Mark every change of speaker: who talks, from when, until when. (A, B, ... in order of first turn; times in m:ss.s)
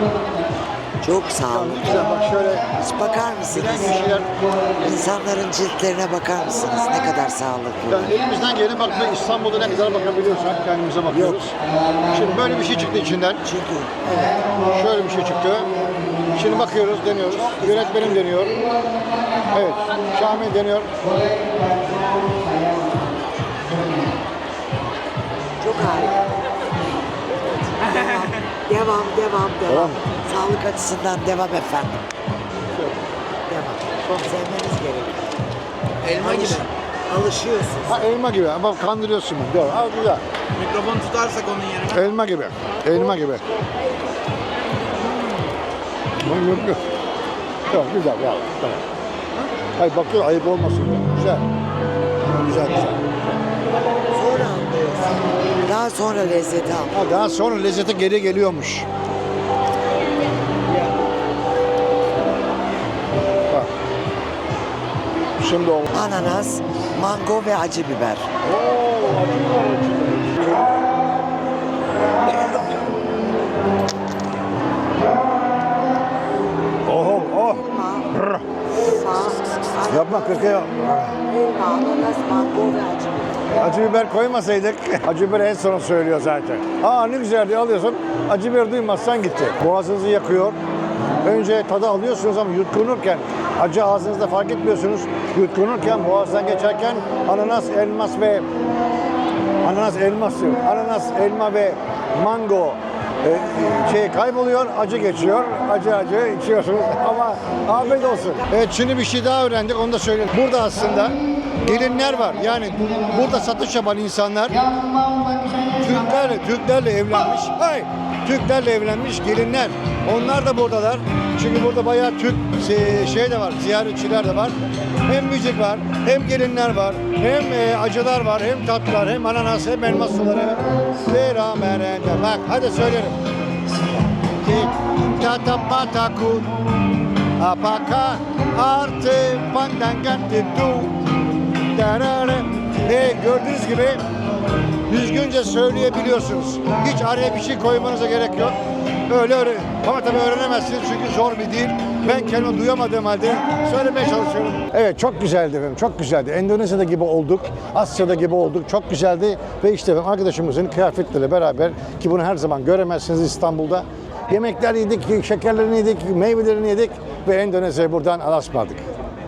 0:01.0-0:02.1 A
0:01.5-0:04.3 B
0:02.7-0:04.1 A
0:04.8-0:08.2 A
0:07.9-0:11.6 B
0:11.1-0:11.4 A
0:12.1-0:13.4 B
0:13.4-0:14.3 A
0:14.0-0:15.7 B
0:16.3-0:18.5 B
0:17.3-0:18.4 A
0:19.5-0:20.9 B
0:25.6-0:26.2 A
0:27.4-0:32.0 A
0:27.8-0:28.4 C
0:29.7-0:30.0 B
0:32.8-0:33.0 B
0:33.5-0:35.3 A
0:36.0-0:36.7 C
0:36.0-0:38.0 A
0:37.9-0:40.2 B
0:40.5-0:42.1 C
0:41.9-0:43.4 B
0:42.8-0:43.3 C
0:46.2-0:46.8 B
0:47.7-0:48.8 B
0:49.8-0:51.4 B
0:52.2-0:53.3 B
0:54.1-0:57.0 A
0:56.9-0:58.9 B
1:05.4-1:05.9 B
1:05.9-1:08.3 A
1:08.4-1:10.7 B
1:12.3-1:12.8 B
1:16.8-1:18.4 B
1:17.4-1:18.1 A
1:18.8-1:20.6 A
1:19.9-1:21.2 B
1:21.2-1:23.6 A
1:23.6-1:30.6 B
1:31.2-1:38.4 B
1:39.6-1:54.6 B
1:55.8-2:04.5 B
2:05.0-2:13.2 B
2:14.4-2:16.5 B
2:17.4-2:21.0 B
2:21.7-2:24.0 B
2:24.9-2:28.6 B
2:29.1-2:48.8 B